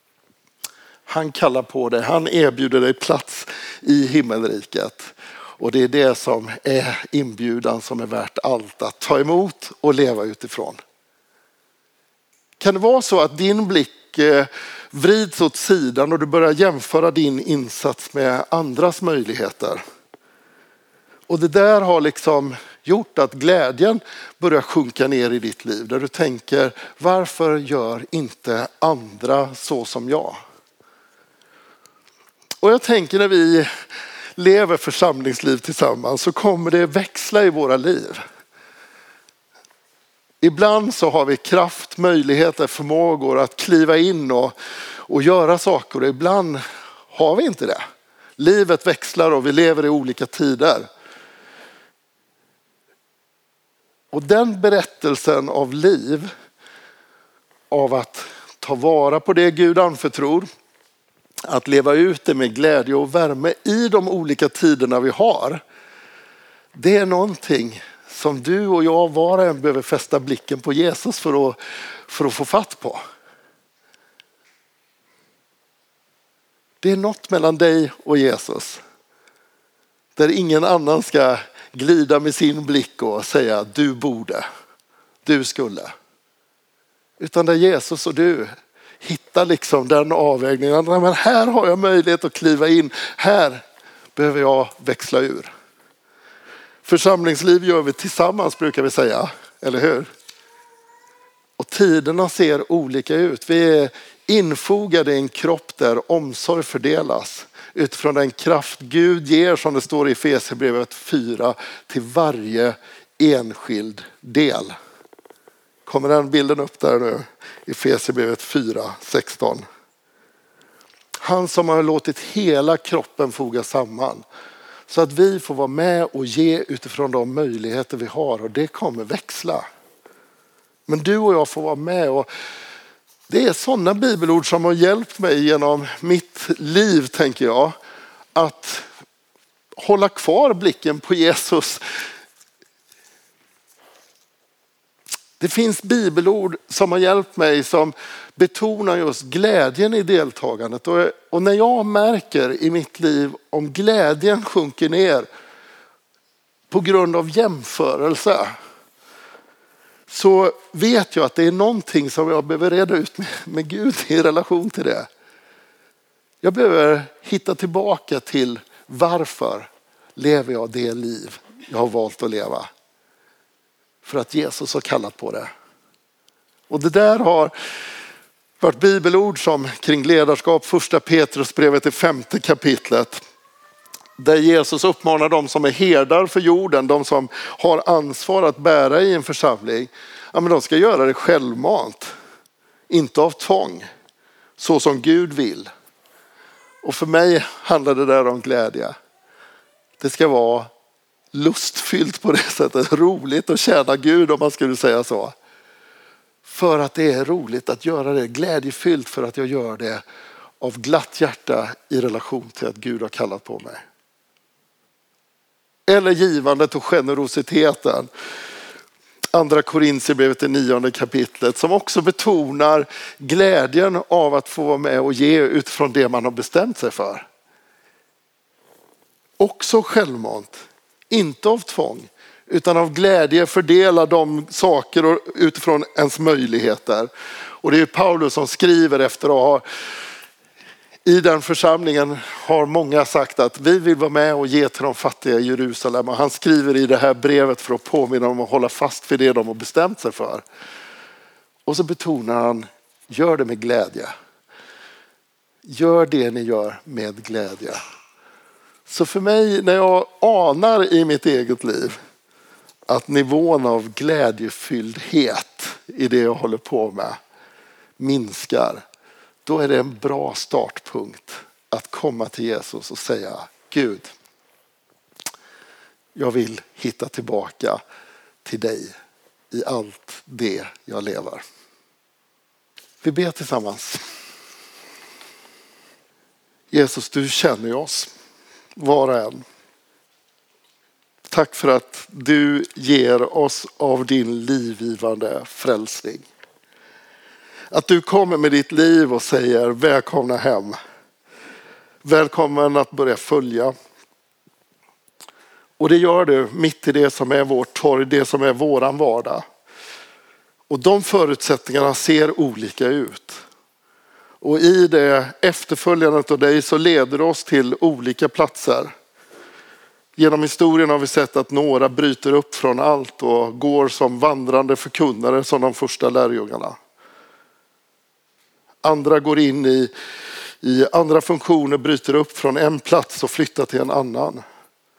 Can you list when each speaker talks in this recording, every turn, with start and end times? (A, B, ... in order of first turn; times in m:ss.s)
0:01.1-0:10.8 A
0:12.6-0:19.8 A
0:21.3-0:30.4 A
0:32.6-0:33.7 A
0:34.4-0:38.2 A
0:40.4-0:44.5 A
0:45.1-0:47.8 A
0:48.4-0:50.9 A
0:54.1-0:56.3 A
0:57.7-1:00.5 A
1:01.5-1:05.6 A
1:06.7-1:13.0 A
1:16.8-1:18.8 A
1:20.2-1:24.4 A
1:25.2-1:25.9 A
1:27.2-1:33.6 A
1:34.2-1:35.5 A
1:36.8-1:40.1 A
1:41.6-1:54.8 A
1:55.9-1:59.6 A
2:01.2-2:04.2 A
2:04.9-2:09.6 A
2:10.9-2:12.3 A
2:13.3-2:17.8 A
2:18.4-2:18.9 A
2:19.8-2:21.8 A
2:25.4-2:35.3 A
2:36.7-2:38.6 A
2:40.1-2:45.1 A
2:46.4-2:52.7 A
2:54.0-2:55.5 A
2:56.7-2:57.5 A
2:58.6-3:03.2 A
3:04.2-3:12.1 A
3:12.9-3:13.9 A
3:14.6-3:15.7 A
3:16.8-3:19.0 A
3:20.0-3:20.7 A
3:21.3-3:25.4 A
3:26.4-3:30.0 A
3:30.6-3:33.8 A
3:35.9-3:38.1 A
3:39.3-3:47.3 A
3:49.4-3:50.6 A
3:51.1-3:57.1 A
3:57.6-3:59.6 A
4:01.1-4:10.4 A
4:11.7-4:14.1 A
4:15.6-4:17.8 A
4:18.9-4:22.0 A
4:22.9-4:27.2 A
4:28.0-4:28.8 A
4:29.5-4:34.1 A
4:36.2-4:37.8 A
4:38.4-4:38.9 A
4:39.5-4:41.4 A
4:43.0-4:44.0 A
4:46.7-4:48.1 A
4:48.8-4:49.4 A
4:51.3-4:56.3 A
4:57.7-5:00.8 A
5:02.0-5:03.7 A
5:05.8-5:09.4 A
5:10.7-5:13.4 A
5:14.4-5:18.9 A
5:20.2-5:26.8 A
5:28.8-5:29.9 A
5:30.6-5:34.4 A